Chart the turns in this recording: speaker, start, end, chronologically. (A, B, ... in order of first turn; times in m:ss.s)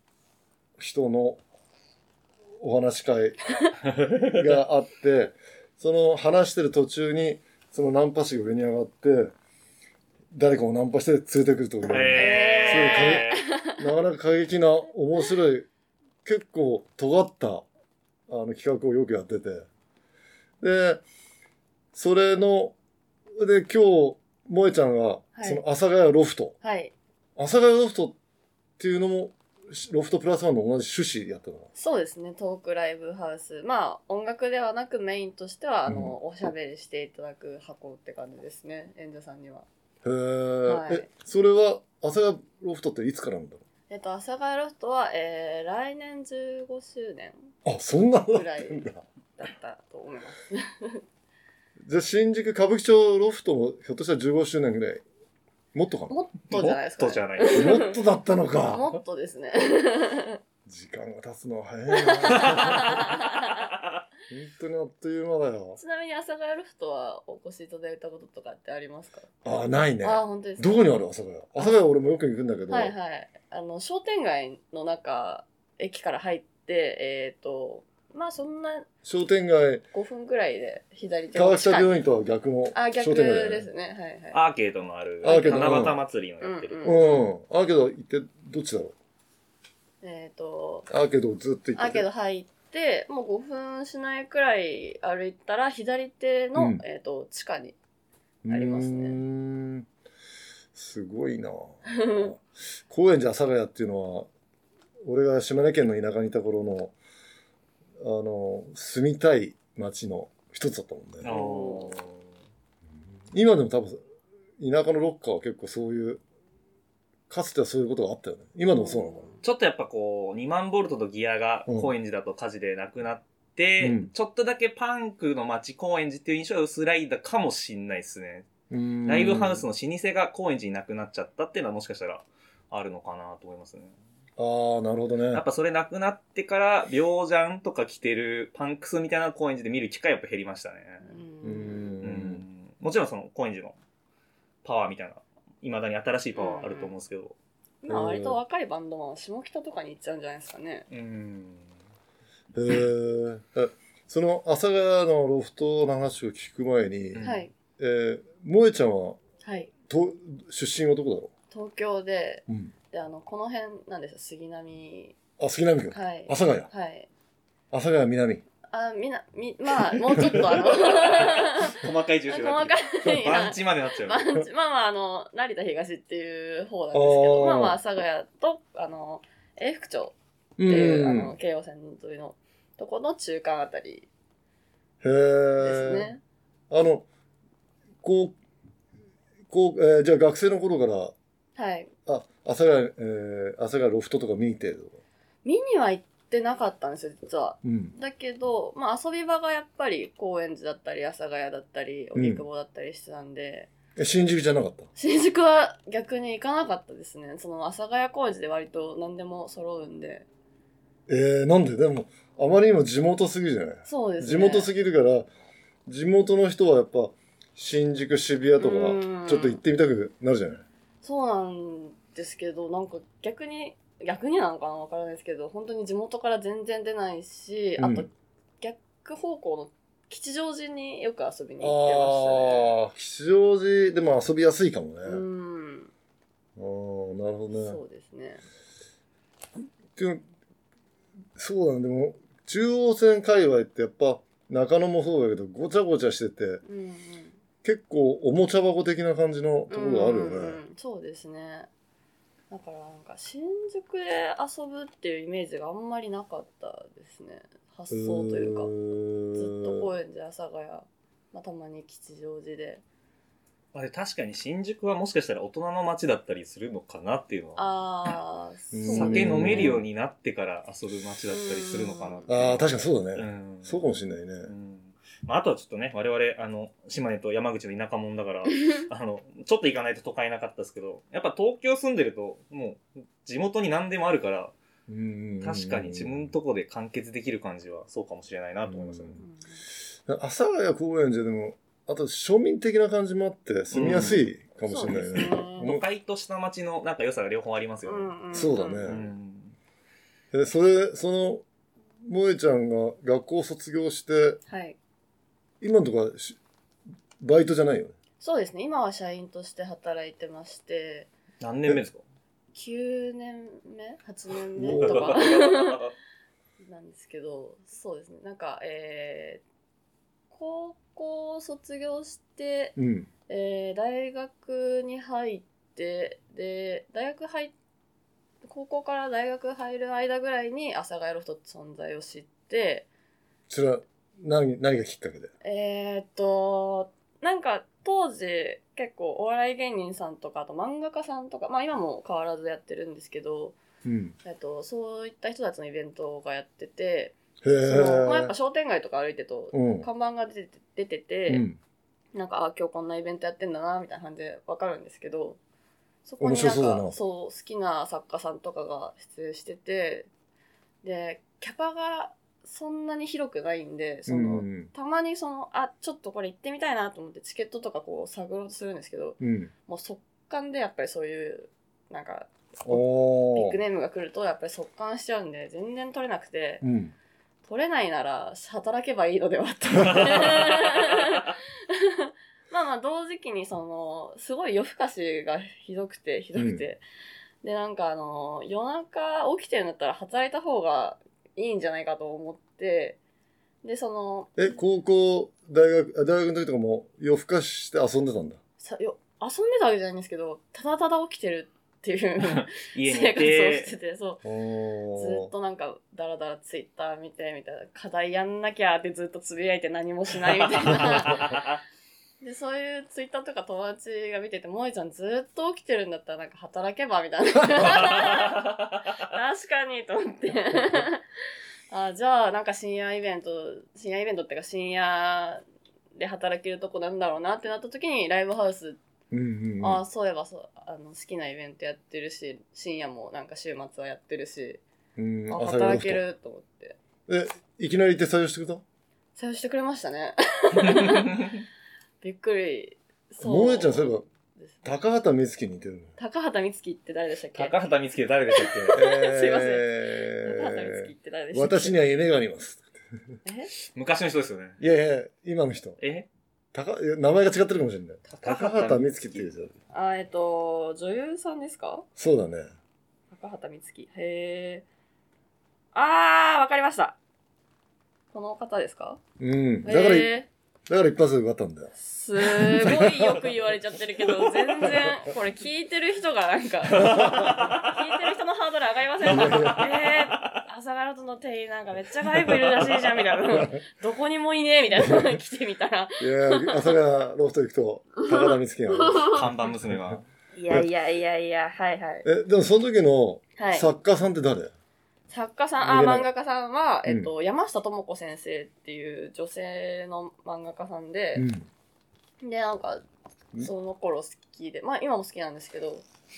0:00.8-0:01.4 A
0:02.6-0:03.4 A
0:04.0-0:04.4 B
0:04.2-0:09.3 A
0:10.3-0:15.7 A
0:11.9-0:13.5 B
0:12.2-0:13.8 C
0:16.2-0:17.7 A
0:18.3-0:19.7 A
0:20.6-0:21.0 A
0:21.9-0:22.8 A
0:23.4-0:26.6 A
0:25.4-0:25.6 C
0:26.6-0:26.9 C
0:27.4-0:28.2 A
0:28.8-0:31.7 A
0:31.8-0:39.7 C
0:35.9-0:36.1 A
0:40.0-0:43.6 A
0:40.7-0:41.1 C
0:43.9-0:47.5 C
0:47.6-0:49.0 A
0:48.3-0:51.0 C
0:51.8-0:55.0 A
0:55.7-0:56.8 A
0:56.1-0:57.9 C
0:56.5-0:58.0 B
0:57.5-0:58.9 A
0:58.7-1:00.4 C
1:00.7-1:03.2 A
1:01.9-1:03.7 C
1:04.3-1:05.8 A
1:05.8-1:09.3 C
1:09.4-1:12.9 A
1:10.0-1:10.8 C
1:12.7-1:18.9 C
1:19.0-1:19.8 A
1:19.9-1:22.0 C
1:21.4-1:23.7 A
1:22.7-1:24.4 C
1:24.3-1:27.1 B
1:25.2-1:25.8 C
1:25.2-1:26.0 A
1:26.4-1:27.2 C
1:26.8-1:29.0 A
1:30.0-1:30.9 C
1:30.9-1:32.1 A
1:31.8-1:37.8 C
1:36.6-1:36.8 A
1:38.4-1:39.9 A
1:38.5-1:39.2 C
1:40.7-1:44.3 A
1:41.9-1:42.3 C
1:45.0-1:47.0 A
1:48.0-1:51.4 A
1:51.2-1:52.3 B
1:51.3-1:51.9 C
1:53.3-1:54.0 A
1:54.6-1:56.2 A
1:57.3-1:59.3 A
1:58.8-1:59.4 C
1:59.4-2:08.5 B
2:03.8-2:04.1 A
2:08.7-2:09.6 A
2:09.1-2:14.0 B
2:14.4-2:15.4 A
2:15.3-2:21.0 B
2:21.0-2:22.0 C
2:21.4-2:22.4 A
2:22.0-2:23.8 B
2:24.6-2:27.4 B
2:26.4-2:26.9 C
2:27.8-2:30.9 C
2:27.9-2:28.4 A
2:30.9-2:31.7 B
2:32.5-2:37.3 A
2:37.2-2:37.5 B
2:37.2-2:37.5 C
2:37.8-2:39.2 A
2:39.4-2:39.7 C
2:39.9-2:41.3 A
2:41.5-2:45.2 C
2:42.5-2:42.7 A
2:45.4-2:46.7 A
2:45.9-2:47.1 C
2:47.7-2:48.4 A
2:48.7-3:00.2 C
2:50.0-2:50.4 A
2:50.5-2:54.3 B
2:56.9-2:57.8 A
3:00.6-3:01.4 A
3:00.7-3:04.1 C
3:05.0-3:06.1 A
3:05.6-3:06.2 C
3:06.7-3:07.1 A
3:08.0-3:08.4 A
3:09.5-3:11.2 A
3:11.6-3:11.9 C
3:12.1-3:15.0 A
3:15.4-3:23.7 C
3:17.6-3:17.9 A
3:22.2-3:22.4 A
3:24.0-3:24.9 A
3:25.0-3:30.3 C
3:31.1-3:35.3 A
3:33.9-3:34.7 C
3:35.9-3:40.6 A
3:38.6-3:39.6 C
3:41.0-3:52.8 C
3:47.8-3:48.1 A
3:51.6-3:55.2 A
3:55.0-3:55.9 C
3:56.6-3:57.8 A
3:57.5-3:58.4 C
4:00.0-4:00.2 A
4:01.4-4:06.6 A
4:06.6-4:07.4 C
4:07.6-4:10.6 A
4:09.7-4:11.7 C
4:12.5-4:18.7 C
4:17.9-4:19.9 A
4:19.3-4:22.8 C
4:23.7-4:27.7 B
4:27.6-4:29.8 C
4:28.7-4:29.8 A
4:28.9-4:33.8 B
4:31.3-4:32.3 C
4:32.3-4:34.5 A
4:34.4-4:44.5 B
4:44.9-4:46.3 A
4:45.4-4:49.2 B
4:48.7-4:49.2 A
4:49.2-4:49.6 C
4:50.1-4:55.8 A
4:53.7-4:54.2 B
4:54.6-4:55.7 C
4:55.6-4:58.2 B
4:57.8-4:59.0 C
4:58.3-4:59.0 A
4:58.8-4:59.6 B
5:00.3-5:01.4 A
5:02.0-5:04.4 A
5:04.5-5:04.8 C
5:05.6-5:06.4 A
5:07.2-5:08.0 A
5:08.2-5:11.1 C
5:11.4-5:12.0 B
5:12.5-5:15.8 C
5:14.6-5:15.2 A
5:14.8-5:15.9 B
5:16.6-5:19.4 C
5:20.3-5:22.8 C
5:22.8-5:23.1 A
5:23.3-5:27.5 C
5:28.4-5:32.9 C
5:33.5-5:35.3 A
5:35.4-5:43.6 C
5:43.8-5:44.2 A
5:44.2-5:51.4 C
5:47.4-5:48.3 A
5:49.5-5:49.9 A
5:51.3-5:51.6 A
5:52.1-5:55.4 C
5:56.0-6:00.1 C
5:56.2-5:57.0 A
6:00.8-6:16.6 C
6:04.1-6:04.7 A
6:09.2-6:09.5 A
6:12.7-6:13.6 A
6:16.6-6:16.9 A
6:17.4-6:26.8 C
6:26.4-6:26.6 A
6:27.4-6:33.0 C
6:33.6-6:34.6 C
6:34.4-6:38.4 A
6:38.6-6:44.2 C
6:42.2-6:43.7 B
6:44.2-6:45.3 A
6:45.0-6:51.4 C
6:50.6-6:51.6 B
6:52.2-7:01.0 C
6:57.7-6:58.5 B
7:01.7-7:05.4 C
7:06.0-7:08.8 C
7:09.1-7:09.8 A
7:09.6-7:14.6 C
7:15.0-7:16.0 A
7:15.3-7:16.8 C
7:17.1-7:18.6 A
7:19.2-7:21.3 C
7:20.6-7:21.4 B
7:22.0-7:24.7 C
7:23.2-7:24.0 A
7:24.6-7:25.9 A
7:26.0-7:27.6 C
7:27.3-7:28.8 B
7:28.3-7:31.8 C
7:28.7-7:32.7 A
7:33.2-7:33.5 C
7:33.6-7:34.6 B
7:34.6-7:35.8 A
7:35.8-7:36.1 B
7:36.5-7:39.6 A
7:38.1-7:39.3 B
7:39.7-7:41.9 C
7:42.0-7:42.5 A
7:43.1-7:44.6 C
7:45.7-7:47.0 C
7:48.1-7:49.0 C
7:49.2-7:50.1 A
7:49.6-7:50.3 C
7:50.7-7:53.3 A
7:51.8-8:06.8 C
7:56.7-7:57.8 B
7:56.8-7:57.6 A
7:59.0-7:59.6 A
7:59.2-8:00.3 B
8:02.4-8:02.9 B
8:04.8-8:05.2 A
8:06.0-8:10.7 A
8:08.0-8:09.2 C
8:09.1-8:10.0 B
8:10.4-8:12.1 C
8:12.0-8:14.5 A
8:13.4-8:13.7 C
8:15.1-8:21.3 C
8:15.6-8:16.1 A
8:16.9-8:17.1 A
8:21.2-8:21.5 A
8:22.2-8:22.8 C
8:23.4-8:25.8 C